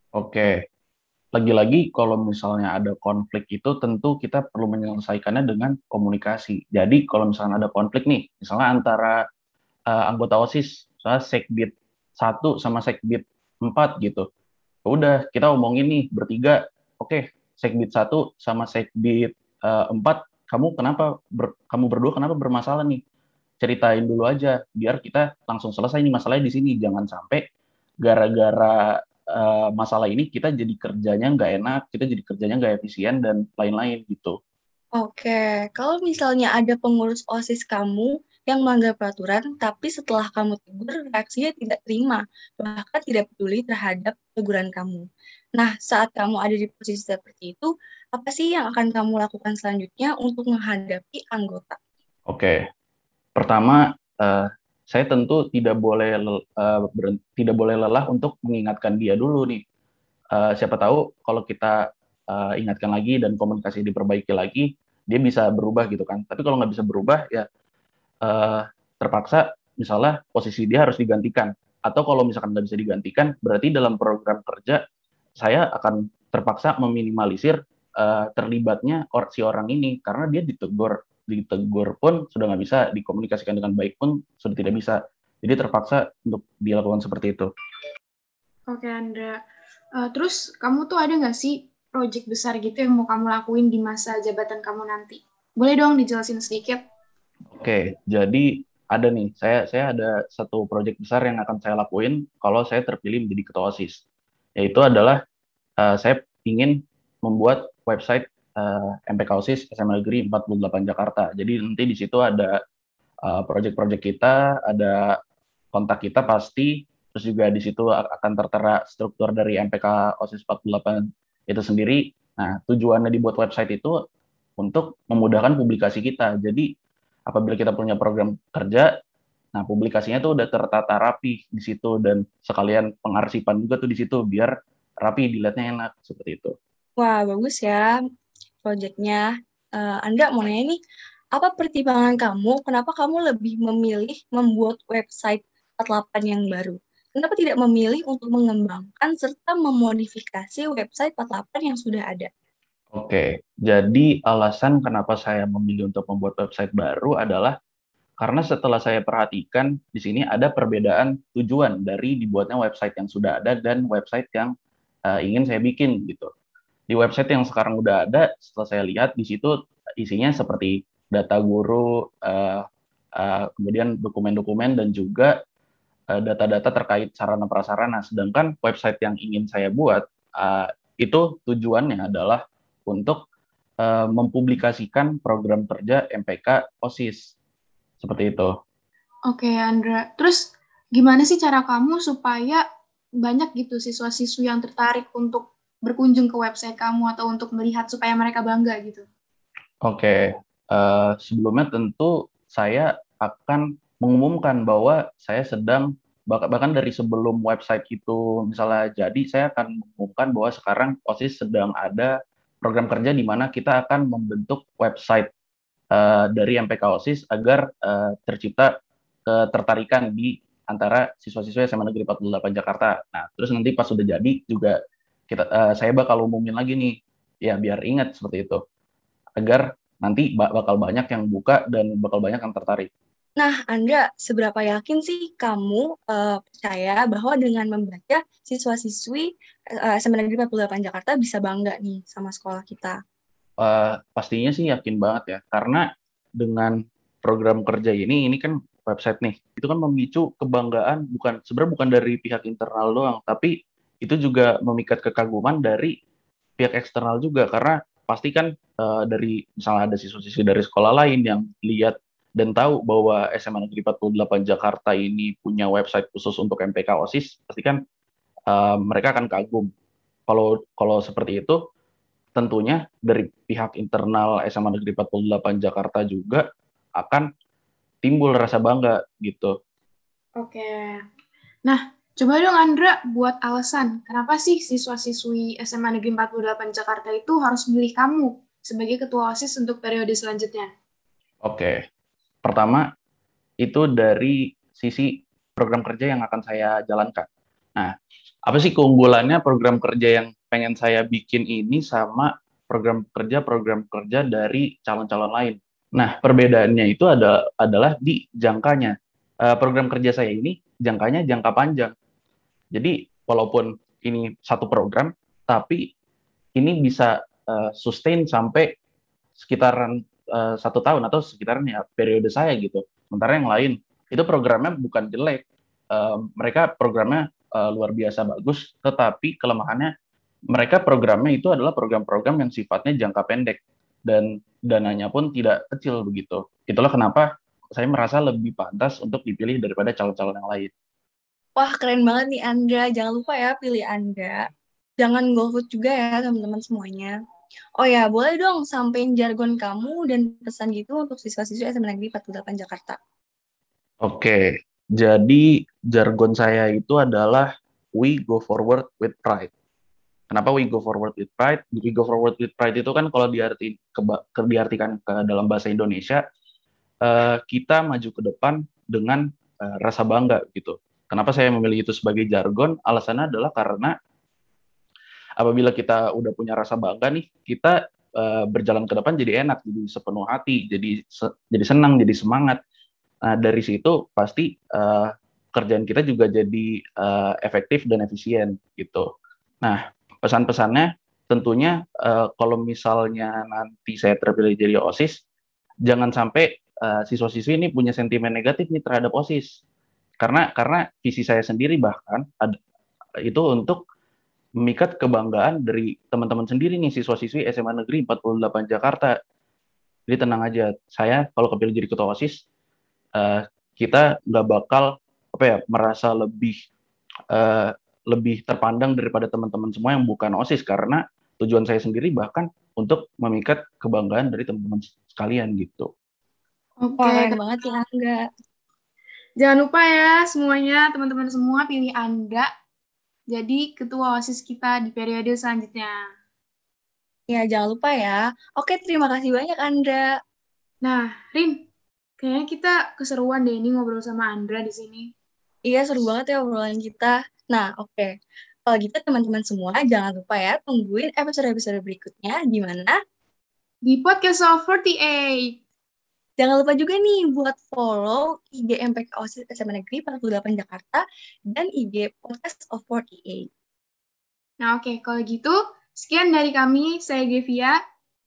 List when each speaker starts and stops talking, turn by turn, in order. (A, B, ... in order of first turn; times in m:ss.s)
0:00.1-0:00.5 A
0:01.3-0:09.2 A
0:09.9-0:14.2 A
0:14.8-0:23.0 A
0:23.6-0:27.4 A
0:28.0-0:34.4 A
0:35.0-0:45.0 B
0:45.6-0:51.8 B
0:52.3-0:52.6 A
0:53.4-0:59.6 A
1:00.3-1:01.8 A
1:02.3-1:07.4 A
1:08.2-1:14.8 A
1:15.4-1:27.5 A
1:28.7-1:29.4 C
1:30.0-1:36.8 C
1:37.5-1:44.0 A
1:44.6-1:45.2 A
1:45.8-1:52.5 A
1:53.3-1:55.0 A
1:55.7-2:03.9 A
2:04.6-2:06.7 A
2:07.3-2:08.9 A
2:09.5-2:14.5 A
2:15.0-2:16.5 A
2:17.0-2:17.9 B
2:18.6-2:19.2 B
2:19.8-2:20.8 B
2:21.4-2:32.3 B
2:32.9-2:37.5 A
2:38.2-2:44.5 A
2:45.1-2:46.3 A
2:46.9-2:52.6 A
2:53.2-2:55.3 A
2:56.1-3:03.2 A
3:03.8-3:07.2 A
3:08.0-3:08.5 A
3:09.3-3:12.6 C
3:13.2-3:19.0 C
3:19.8-3:32.1 A
3:32.6-3:35.3 A
3:35.9-3:38.7 A
3:39.3-3:44.8 A
3:45.3-3:46.9 A
3:47.4-3:48.6 A
3:49.4-3:52.9 A
3:53.4-3:59.3 B
3:59.8-4:03.0 B
4:03.6-4:05.8 A
4:06.4-4:15.9 A
4:16.6-4:27.8 A
4:28.5-4:29.7 A
4:30.3-4:31.6 A
4:32.4-4:36.4 A
4:37.0-4:37.3 A
4:38.0-4:39.5 A
4:40.4-4:41.0 C
4:41.6-4:50.7 C
4:51.4-4:51.7 A
4:52.4-4:52.8 A
4:53.6-4:57.2 A
4:58.5-5:08.9 A
5:09.5-5:11.9 A
5:12.7-5:15.8 A
5:16.6-5:18.7 A
5:19.4-5:29.9 A
5:30.5-5:40.7 A
5:41.6-5:44.4 B
5:45.0-5:47.1 B
5:47.8-5:53.0 B
5:54.0-5:54.4 A
5:55.0-5:59.5 A
6:00.3-6:06.2 A
6:07.0-6:13.9 A
6:15.4-6:22.6 A
6:23.2-6:29.1 A
6:29.6-6:35.1 A
6:35.8-6:39.4 A
6:40.2-6:42.5 A
6:43.2-6:43.8 A
6:44.6-6:49.1 A
6:50.1-6:52.4 A
6:53.2-6:56.6 A
6:57.3-7:05.9 A
7:06.8-7:07.4 C
7:07.0-7:08.2 B
7:09.4-7:12.5 C
7:13.3-7:15.9 C
7:17.3-7:20.1 B
7:20.8-7:21.6 C
7:22.2-7:25.1 C
7:25.6-7:28.1 B
7:28.6-7:32.9 B
7:33.8-7:35.5 C
7:36.4-7:43.4 B
7:44.6-7:47.7 C